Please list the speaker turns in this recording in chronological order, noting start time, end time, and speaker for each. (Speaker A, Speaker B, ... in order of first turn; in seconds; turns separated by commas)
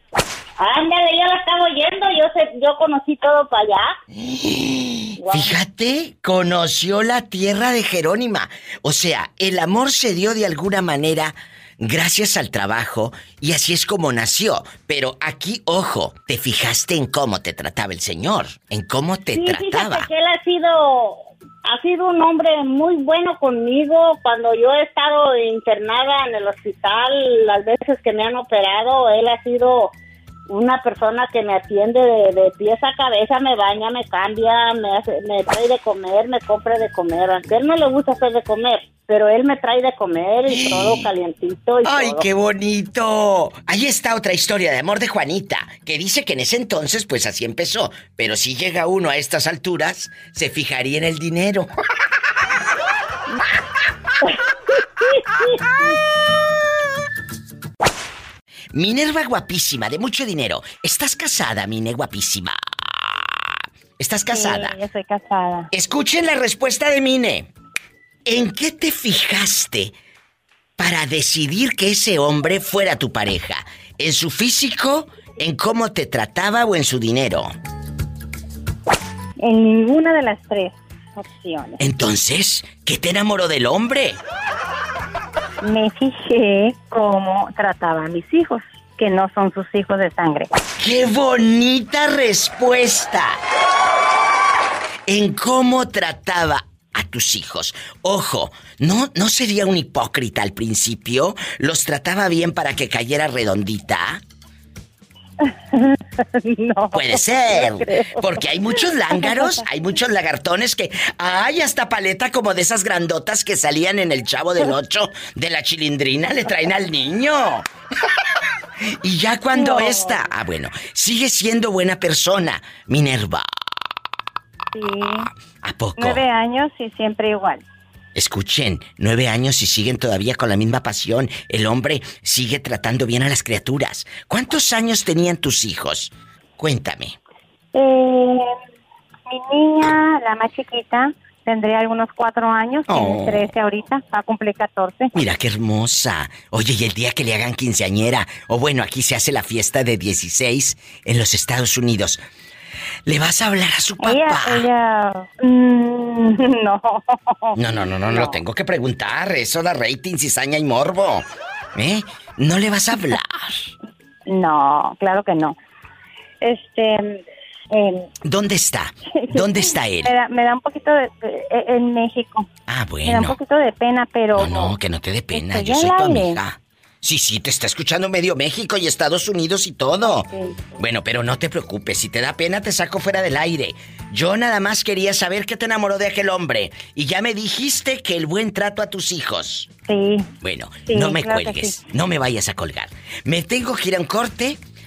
Speaker A: 0.6-3.9, Speaker B: 4.2-20.1, Speaker A: 5.2-5.5, Speaker A: 19.3-29.9, Speaker A: 30.5-42.3, Speaker B: 40.5-41.1, Speaker B: 41.9-51.7, Speaker B: 58.7-62.6, Speaker B: 64.0-64.8, Speaker C: 64.3-65.7, Speaker B: 65.7-67.5, Speaker B: 68.3-69.9, Speaker B: 70.8-77.5, Speaker C: 79.4-81.8, Speaker B: 81.8-84.2, Speaker C: 85.6-90.5, Speaker B: 90.8-93.4, Speaker B: 95.1-104.2, Speaker C: 106.6-106.9, Speaker B: 106.9-117.7, Speaker B: 119.0-123.5, Speaker C: 119.5-120.2, Speaker C: 124.7-125.3, Speaker B: 125.6-126.2, Speaker C: 126.0-127.7, Speaker B: 128.2-137.2, Speaker C: 137.7-138.5, Speaker C: 139.3-145.1, Speaker B: 142.9-143.5, Speaker B: 145.2-152.2, Speaker B: 153.1-154.7, Speaker C: 154.0-158.4, Speaker B: 157.6-163.7, Speaker C: 164.3-165.6, Speaker C: 166.4-168.1, Speaker B: 168.2-170.1, Speaker C: 169.1-172.5, Speaker B: 172.7-173.4, Speaker C: 173.0-174.8, Speaker B: 174.3-180.3, Speaker C: 175.3-176.4, Speaker C: 180.3-180.6, Speaker B: 180.8-189.7, Speaker C: 189.9-190.3, Speaker B: 190.4-194.6, Speaker C: 190.9-191.8